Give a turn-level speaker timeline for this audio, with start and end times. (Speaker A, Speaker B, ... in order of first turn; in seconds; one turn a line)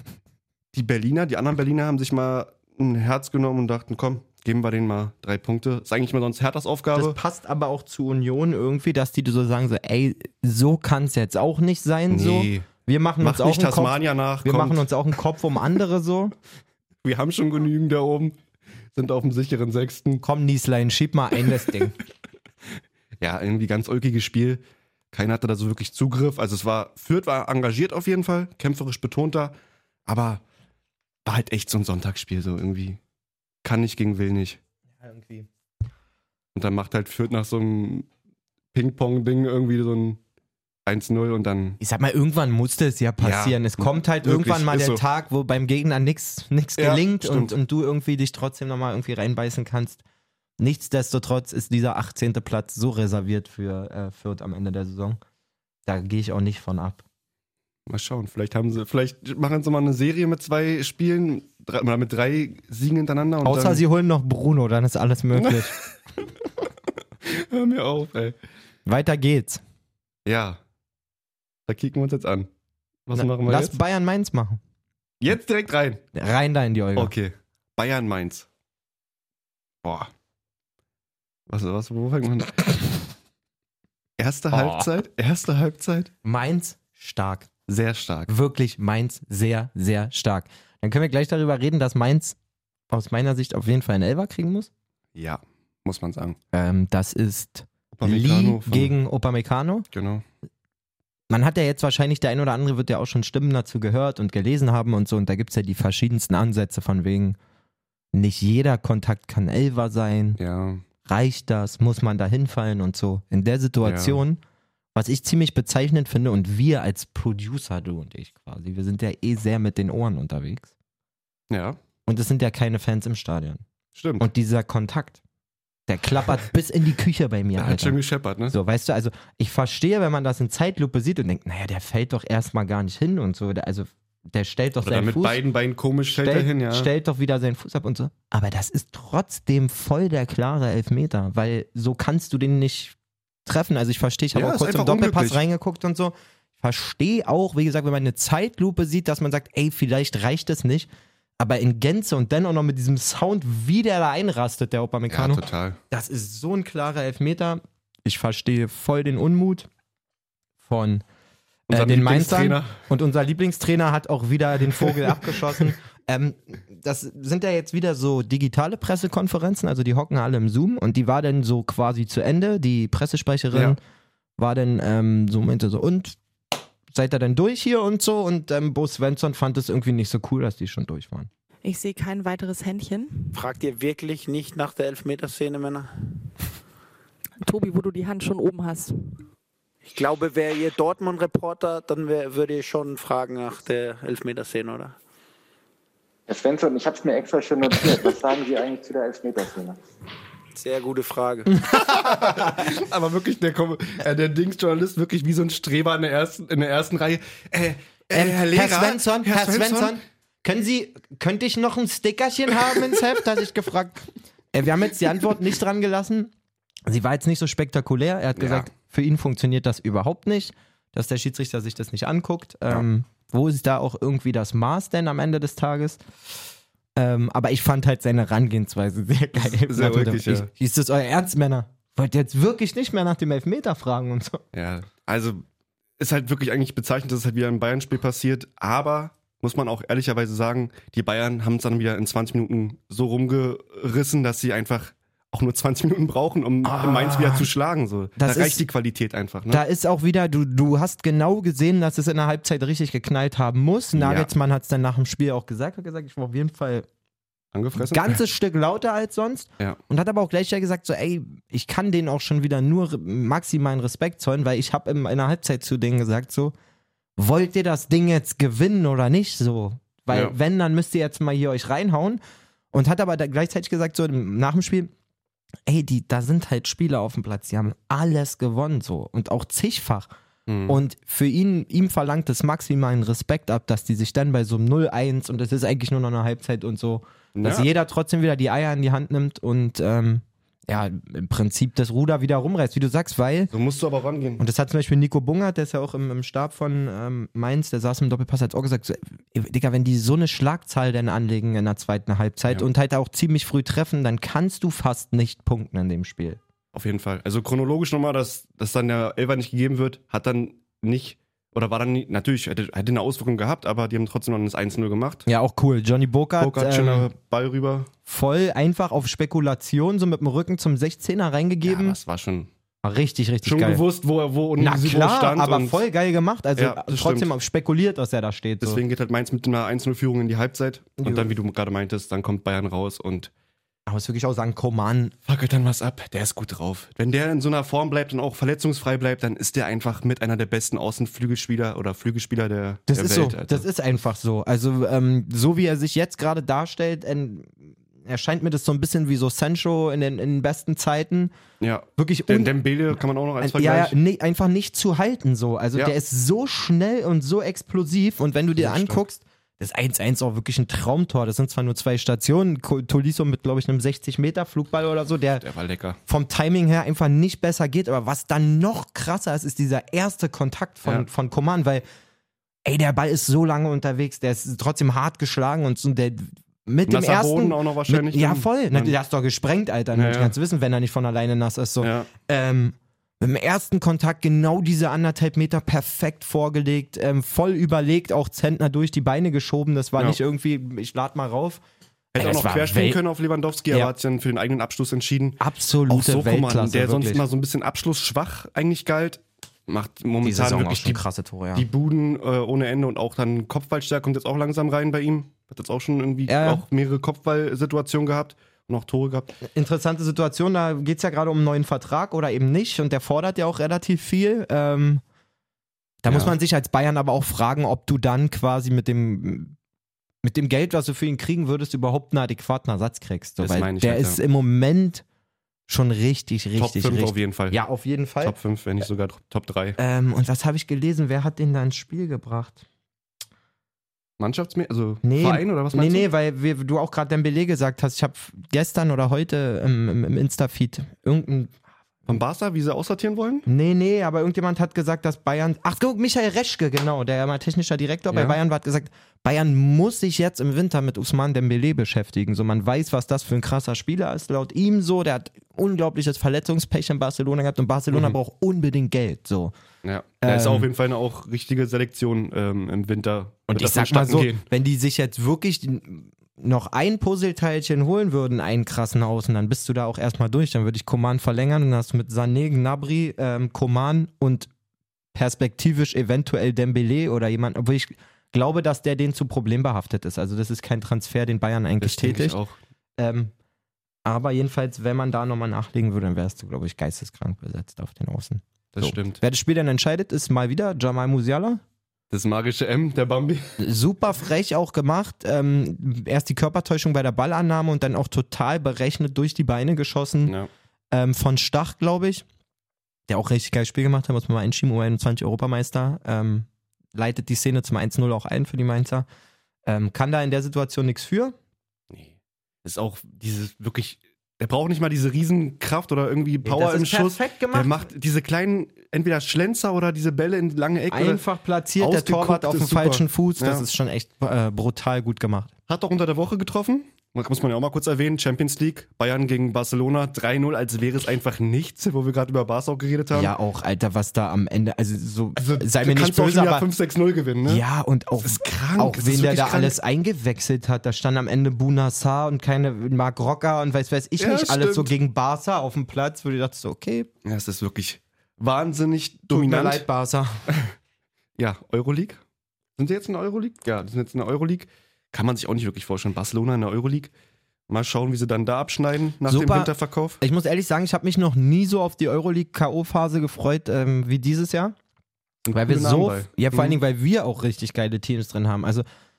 Speaker A: 0.7-7.2
Speaker B: 7.0-16.3
Speaker A: 12.1-12.7
Speaker A: 13.2-14.9
Speaker A: 17.0-18.4
Speaker A: 18.9-20.2
Speaker B: 20.2-21.9
Speaker A: 23.2-29.6
Speaker A: 30.1-30.4
Speaker A: 31.2-33.0
Speaker A: 33.6-34.6
Speaker B: 35.0-35.5
Speaker A: 36.5-38.1
Speaker A: 38.7-40.2
Speaker A: 40.9-41.8
Speaker B: 41.8-50.0
Speaker A: 43.2-45.0
Speaker A: 46.8-47.5
Speaker B: 50.6-55.2
Speaker B: 55.9-57.0
Speaker A: 57.9-63.8
Speaker B: 63.4-65.8
Speaker A: 65.3-65.8
Speaker A: 67.2-68.4
Speaker B: 68.9-69.6
Speaker A: 70.2-70.6
Speaker A: 71.7-72.5
Speaker A: 73.1-73.8
Speaker B: 73.1-74.6
Speaker A: 75.2-76.0
Speaker B: 76.1-77.1
Speaker A: 77.0-78.5
Speaker A: 79.8-80.1
Speaker A: 81.5-83.0
Speaker A: 84.2-86.1
Speaker B: 84.5-84.9
Speaker B: 86.2-87.5
Speaker A: 87.7-88.3
Speaker B: 88.3-92.4
Speaker B: 92.9-94.7
Speaker A: 95.2-96.4
Speaker B: 96.5-99.9
Speaker A: 97.9-98.9
Speaker A: 99.9-100.2
Speaker B: 101.3-107.4
Speaker B: 108.1-110.4
Speaker A: 110.4-110.8
Speaker B: 111.0-114.4
Speaker A: 113.8-114.2
Speaker B: 115.0-120.7
Speaker A: 121.5-121.8
Speaker B: 122.1-123.6
Speaker A: 124.0-124.2
Speaker B: 124.2-125.2
Speaker B: 125.9-128.0
Speaker A: 127.6-128.6
Speaker B: 128.5-135.4
Speaker A: 134.8-136.9
Speaker B: 136.1-142.9
Speaker B: 143.5-159.7
Speaker A: 144.3-145.4
Speaker A: 155.1-155.8
Speaker B: 160.6-161.0
Speaker A: 161.7-162.7
Speaker B: 161.7-173.8
Speaker A: 164.8-165.4
Speaker A: 173.5-173.8
Speaker B: 174.4-176.2
Speaker B: 176.9-181.3
Speaker C: 181.6-183.4
Speaker D: 183.3-186.2
Speaker C: 187.4-189.2
Speaker D: 189.9-194.9
Speaker E: 196.3-199.8
Speaker D: 200.6-201.7
Speaker B: 201.7-202.6
Speaker A: 201.8-210.0
Speaker B: 208.1-216.3
Speaker B: 216.9-226.0
Speaker A: 218.4-218.7
Speaker B: 227.0-234.4
Speaker A: 229.4-230.5
Speaker A: 234.5-235.4
Speaker A: 236.0-249.6
Speaker B: 246.6-247.5
Speaker B: 248.2-248.7
Speaker B: 249.5-256.9
Speaker A: 254.0-254.3
Speaker A: 257.5-258.2
Speaker B: 257.8-266.5
Speaker B: 267.2-272.2
Speaker B: 272.7-274.9
Speaker B: 275.7-280.1
Speaker A: 280.5-280.8
Speaker B: 280.7-293.5
Speaker A: 287.4-287.7
Speaker A: 293.5-294.4
Speaker B: 294.4-306.4
Speaker A: 306.7-315.3
Speaker B: 315.3-317.1
Speaker A: 316.4-317.9
Speaker B: 318.1-322.0
Speaker A: 321.6-322.5
Speaker B: 322.8-323.8
Speaker A: 323.4-325.9
Speaker B: 324.6-328.8
Speaker A: 326.6-327.3
Speaker A: 328.6-333.3
Speaker B: 331.0-331.3
Speaker B: 333.9-335.1
Speaker A: 335.3-343.6
Speaker B: 342.9-351.3
Speaker A: 351.6-354.0
Speaker B: 352.0-352.6
Speaker B: 353.4-365.5
Speaker A: 358.6-359.0
Speaker A: 365.4-366.0
Speaker B: 366.1-371.9
Speaker B: 372.6-391.6
Speaker A: 376.9-378.9
Speaker A: 379.9-380.4
Speaker A: 381.8-382.1
Speaker B: 392.1-393.0
Speaker A: 392.1-401.0
Speaker B: 395.4-397.2
Speaker B: 400.2-401.7
Speaker A: 401.5-409.4
Speaker B: 406.3-406.6
Speaker B: 409.4-415.0
Speaker B: 416.0-419.6
Speaker A: 416.1-416.3
Speaker B: 420.2-425.0
Speaker A: 423.4-424.2
Speaker B: 425.7-428.4
Speaker A: 426.6-427.6
Speaker A: 428.2-429.8
Speaker B: 429.8-432.6
Speaker A: 434.2-436.1
Speaker B: 435.0-441.5
Speaker A: 442.1-443.5
Speaker B: 443.5-459.5
Speaker A: 448.1-448.4
Speaker A: 459.8-464.4
Speaker B: 460.2-460.7
Speaker B: 463.5-474.5
Speaker B: 475.1-482.4
Speaker A: 481.8-482.6
Speaker B: 483.0-483.3
Speaker B: 484.1-491.6
Speaker A: 488.7-489.2
Speaker A: 492.1-493.6
Speaker B: 493.6-500.4
Speaker B: 500.9-502.2
Speaker B: 503.1-509.1
Speaker B: 509.7-511.4
Speaker A: 511.9-521.2
Speaker B: 516.4-517.7
Speaker B: 520.9-525.5
Speaker A: 521.8-523.7
Speaker A: 525.7-533.3
Speaker B: 533.1-536.7
Speaker A: 535.4-537.6
Speaker B: 537.5-547.1
Speaker A: 538.2-539.8
Speaker A: 544.2-544.9
Speaker A: 547.2-549.9
Speaker B: 549.3-550.4
Speaker A: 551.4-552.2
Speaker A: 552.8-557.1
Speaker A: 557.7-560.2
Speaker B: 559.3-564.8
Speaker A: 565.5-566.8
Speaker B: 565.5-568.9